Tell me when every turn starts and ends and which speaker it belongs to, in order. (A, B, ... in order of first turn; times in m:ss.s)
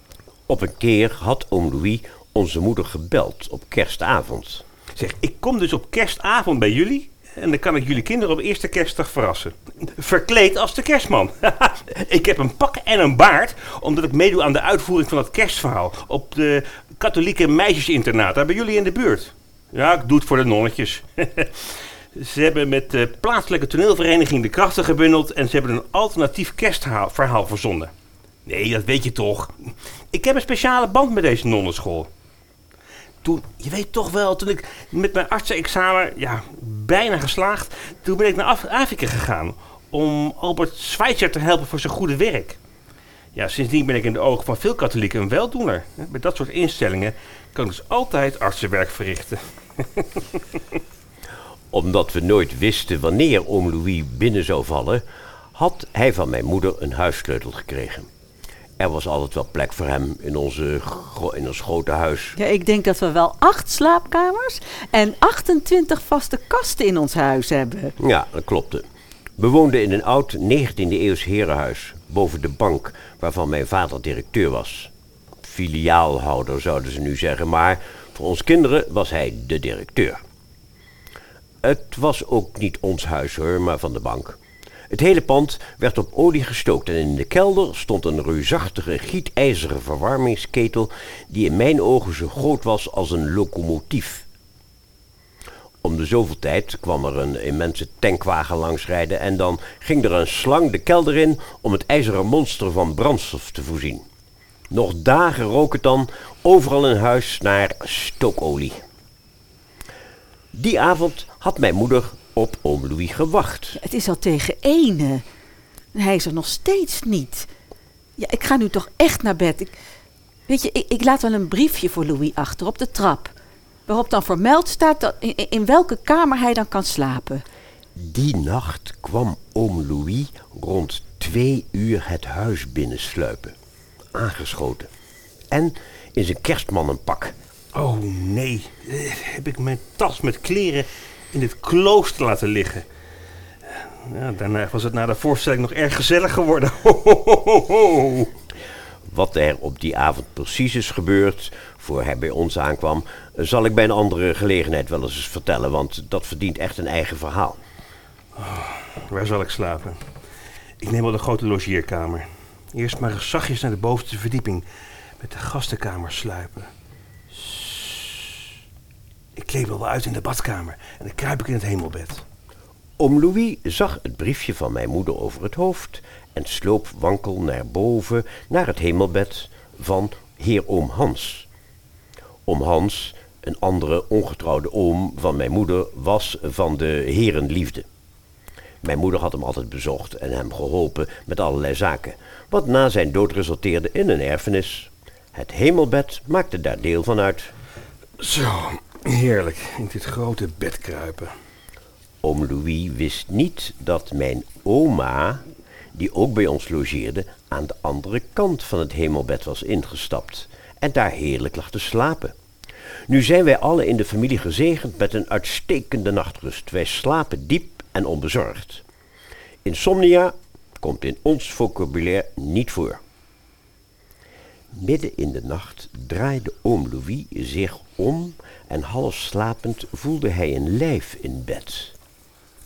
0:00.5-0:04.6 A
0:05.0-0:27.9 B
0:28.4-0:32.1 B
0:33.2-0:42.6 B
0:43.3-0:50.2 B
0:51.7-0:55.0 A
0:55.5-0:58.1 A
0:58.8-1:02.3 A
1:02.4-1:07.9 C
1:08.0-1:08.8 A
1:09.4-1:14.9 A
1:15.4-1:20.2 A
1:21.6-1:24.4 A
1:24.9-1:34.2 A
1:35.8-1:44.0 A
1:44.7-1:48.8 A
1:50.5-1:53.8 A
1:53.8-1:55.2 C
1:55.9-1:57.5 C
1:58.2-1:59.7 C
2:00.5-2:03.3 C
2:03.9-2:07.4 C
2:08.0-2:13.5 A
2:14.1-2:14.9 A
2:15.5-2:17.4 A
2:17.7-2:22.8 B
2:23.7-2:28.3 B
2:29.1-2:37.6 A
2:38.4-2:40.0 B
2:40.8-2:44.6 B
2:45.2-2:46.7 B
2:47.3-2:48.4 B
2:49.4-2:52.2 B
2:53.0-3:01.5 A
3:02.5-3:07.8 A
3:08.8-3:17.5 A
3:18.2-3:21.3 B
3:22.2-3:25.4 A
3:25.9-3:32.3 A
3:33.1-3:38.8 A
3:39.6-3:43.0 A
3:44.7-3:51.9 A